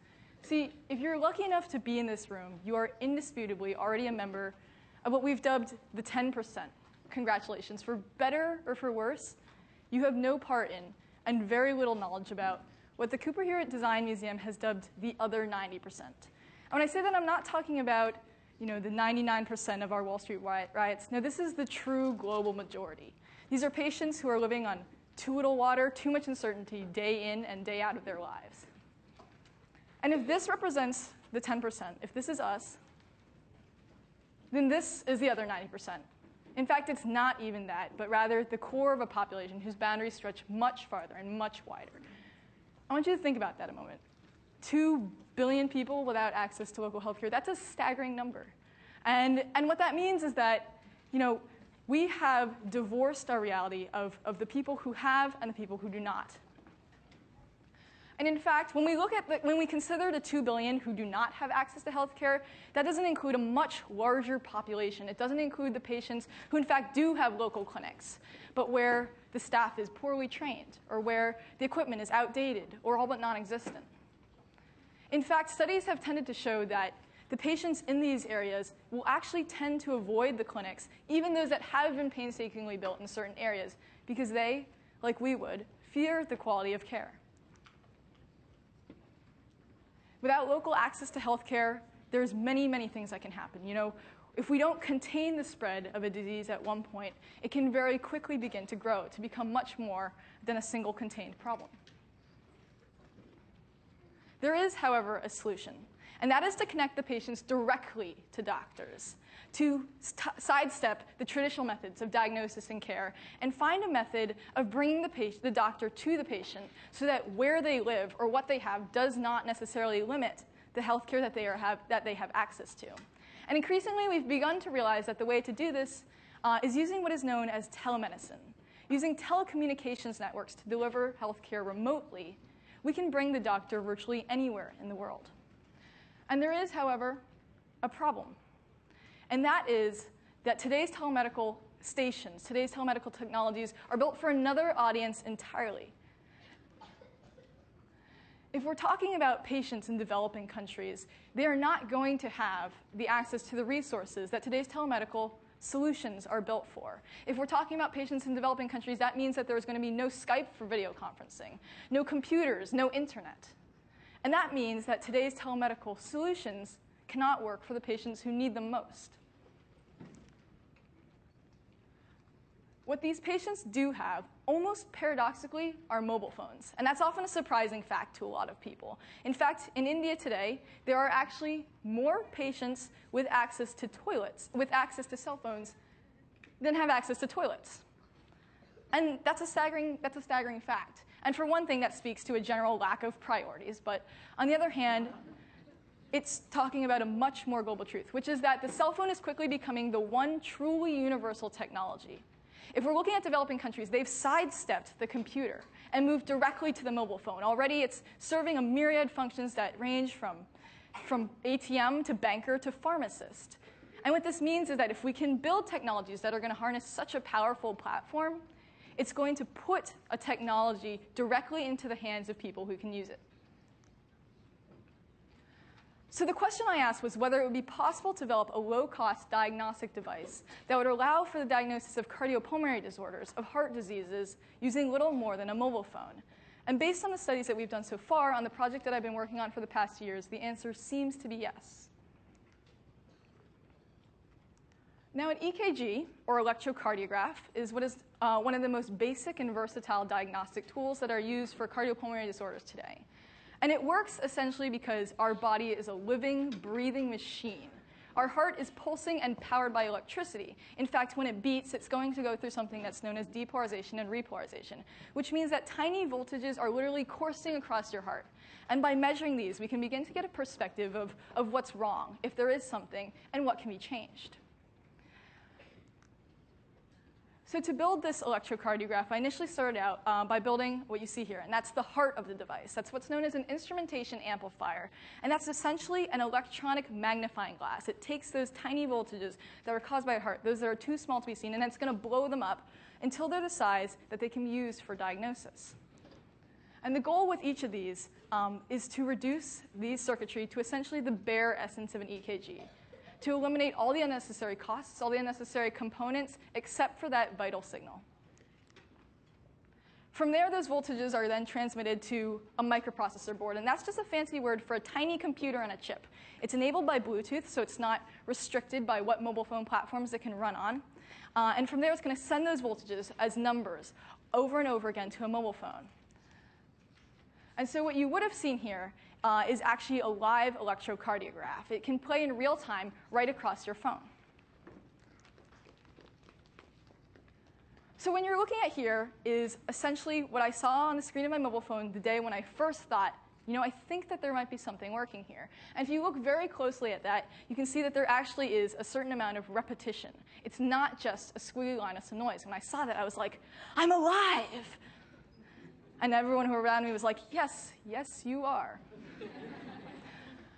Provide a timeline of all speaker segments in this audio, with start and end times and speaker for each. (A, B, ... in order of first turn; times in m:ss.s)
0:00.4-0:09.4 A
0:09.9-0:28.7 A
0:30.0-0:32.8 A
0:34.5-0:42.0 A
0:42.9-0:44.0 A
0:44.6-0:56.4 A
0:58.2-1:13.9 A
1:15.1-1:27.2 A
1:30.2-1:41.8 A
1:44.4-2:15.3 A
2:16.3-2:17.2 A
2:17.8-2:18.4 A
2:19.3-2:25.9 A
2:28.5-2:43.6 A
2:44.2-2:49.2 A
2:52.9-3:05.8 A
3:06.6-3:07.8 A
3:08.9-3:15.2 A
3:16.1-3:30.5 A
3:31.0-3:38.4 A
3:39.0-3:43.2 A
3:46.1-4:01.9 A
4:05.1-4:13.0 A
4:13.6-4:34.4 A
4:37.5-4:55.8 A
4:56.8-5:02.7 A
5:03.2-5:08.0 A
5:10.1-5:20.8 A
5:21.4-5:25.9 A
5:27.6-5:34.1 A
5:38.0-5:54.8 A
5:56.0-5:58.8 A